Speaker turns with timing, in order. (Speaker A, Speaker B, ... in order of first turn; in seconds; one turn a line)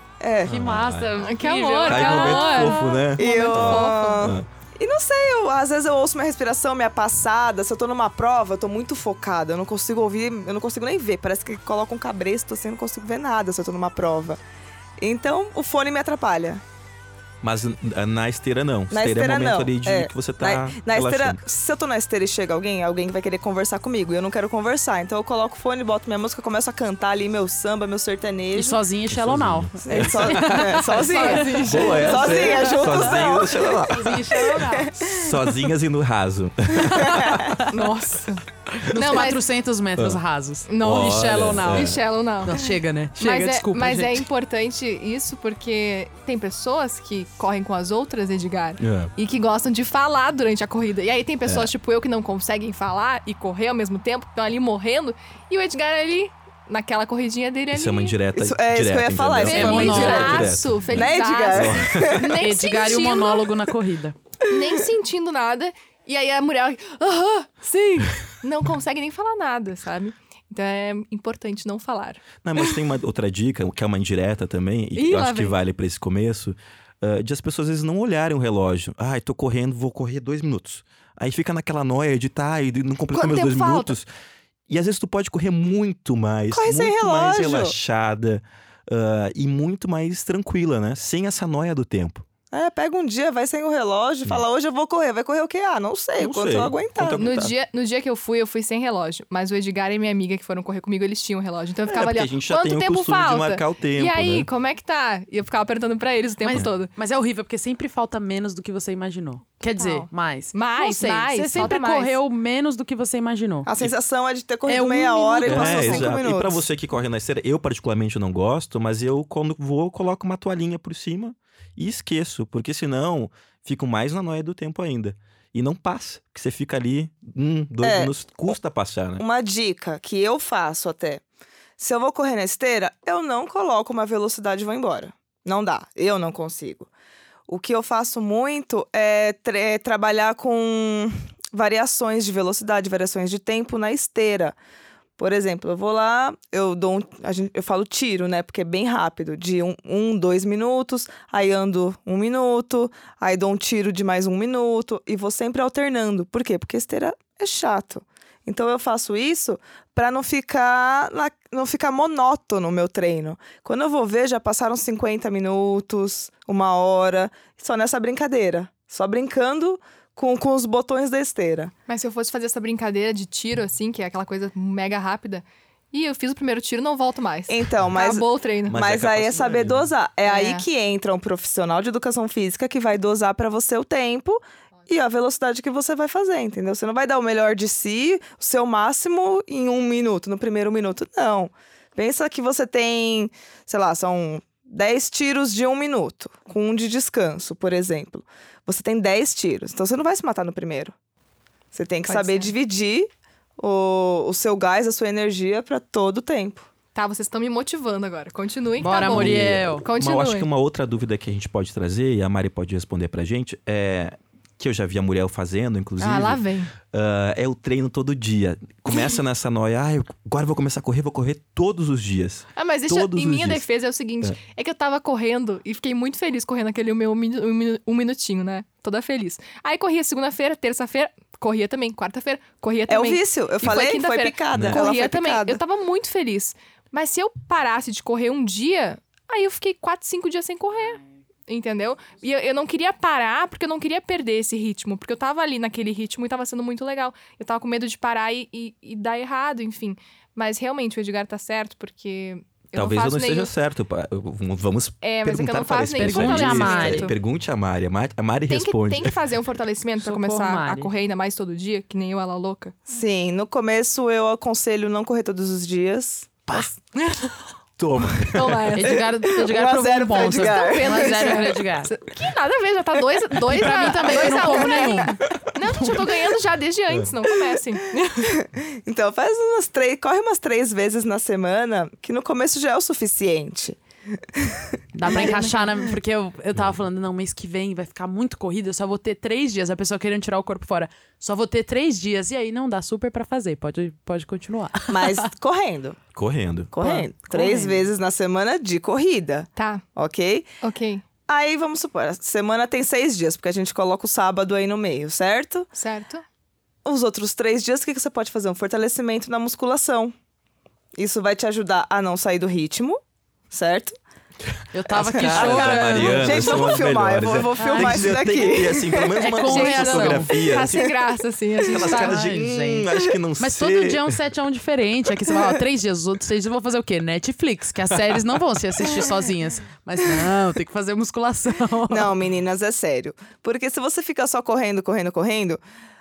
Speaker A: 0.2-0.6
Speaker B: 0.4-1.2
Speaker C: 0.5-2.9
Speaker D: 1.2-4.3
Speaker B: 1.9-4.5
Speaker A: 3.2-14.4
Speaker A: 15.0-16.6
Speaker B: 17.4-21.4
Speaker A: 18.9-28.8
Speaker C: 28.5-33.1
Speaker B: 29.1-30.5
Speaker A: 29.8-35.4
Speaker D: 30.7-32.6
Speaker B: 31.6-34.4
Speaker C: 33.8-34.9
Speaker B: 34.9-37.5
Speaker A: 36.8-37.5
Speaker C: 37.0-37.8
Speaker D: 37.7-39.4
Speaker C: 38.8-44.2
Speaker D: 40.7-58.2
Speaker B: 40.8-42.0
Speaker B: 48.8-49.1
Speaker B: 51.5-51.7
Speaker B: 57.7-62.3
Speaker A: 58.3-62.3
Speaker D: 59.4-63.5
Speaker C: 59.4-60.5
Speaker C: 62.4-64.1
Speaker D: 64.5-72.3
Speaker B: 72.4-84.1
Speaker D: 74.9-75.5
Speaker D: 83.1-83.9
Speaker B: 84.7-92.2
Speaker A: 86.5-87.7
Speaker A: 92.5-97.2
Speaker B: 96.2-97.5
Speaker D: 97.2-106.9
Speaker B: 101.9-104.5
Speaker C: 106.4-113.7
Speaker D: 109.8-112.2
Speaker A: 113.7-116.6
Speaker C: 114.7-116.1
Speaker B: 115.5-129.2
Speaker A: 127.8-128.1
Speaker A: 129.2-131.2
Speaker A: 131.8-136.9
Speaker A: 137.5-144.6
Speaker A: 145.2-171.7
Speaker D: 171.9-178.8
Speaker A: 177.5-200.9
Speaker B: 178.7-179.9
Speaker D: 180.2-180.7
Speaker A: 201.7-206.7
Speaker D: 202.1-202.5
Speaker D: 206.9-210.5
Speaker C: 208.8-209.8
Speaker B: 209.0-223.6
Speaker D: 216.0-216.7
Speaker D: 222.6-253.5
Speaker A: 232.9-235.6
Speaker B: 234.5-234.8
Speaker B: 252.7-259.3
Speaker D: 255.0-257.1
Speaker C: 256.0-257.1
Speaker D: 258.5-262.8
Speaker C: 260.0-260.9
Speaker A: 262.9-266.7
Speaker D: 266.9-267.3
Speaker B: 267.8-268.8
Speaker D: 268.2-269.0
Speaker C: 268.7-271.9
Speaker A: 268.9-271.5
Speaker D: 270.3-278.4
Speaker C: 273.5-275.2
Speaker B: 275.8-276.1
Speaker A: 278.3-283.8
Speaker A: 284.3-285.5
Speaker C: 284.9-295.3
Speaker D: 285.1-285.5
Speaker A: 294.9-296.0
Speaker B: 296.1-296.8
Speaker A: 296.7-300.5
Speaker C: 296.8-297.9
Speaker D: 299.6-299.8
Speaker D: 300.6-301.0
Speaker A: 301.3-305.7
Speaker D: 305.7-306.2
Speaker A: 306.8-310.1
Speaker A: 310.9-313.0
Speaker A: 313.5-314.0
Speaker C: 314.7-316.8
Speaker B: 314.9-320.9
Speaker A: 315.1-319.1
Speaker C: 317.6-318.2
Speaker C: 319.2-320.5
Speaker D: 319.4-322.2
Speaker B: 321.6-324.2
Speaker C: 321.8-332.1
Speaker A: 331.9-335.6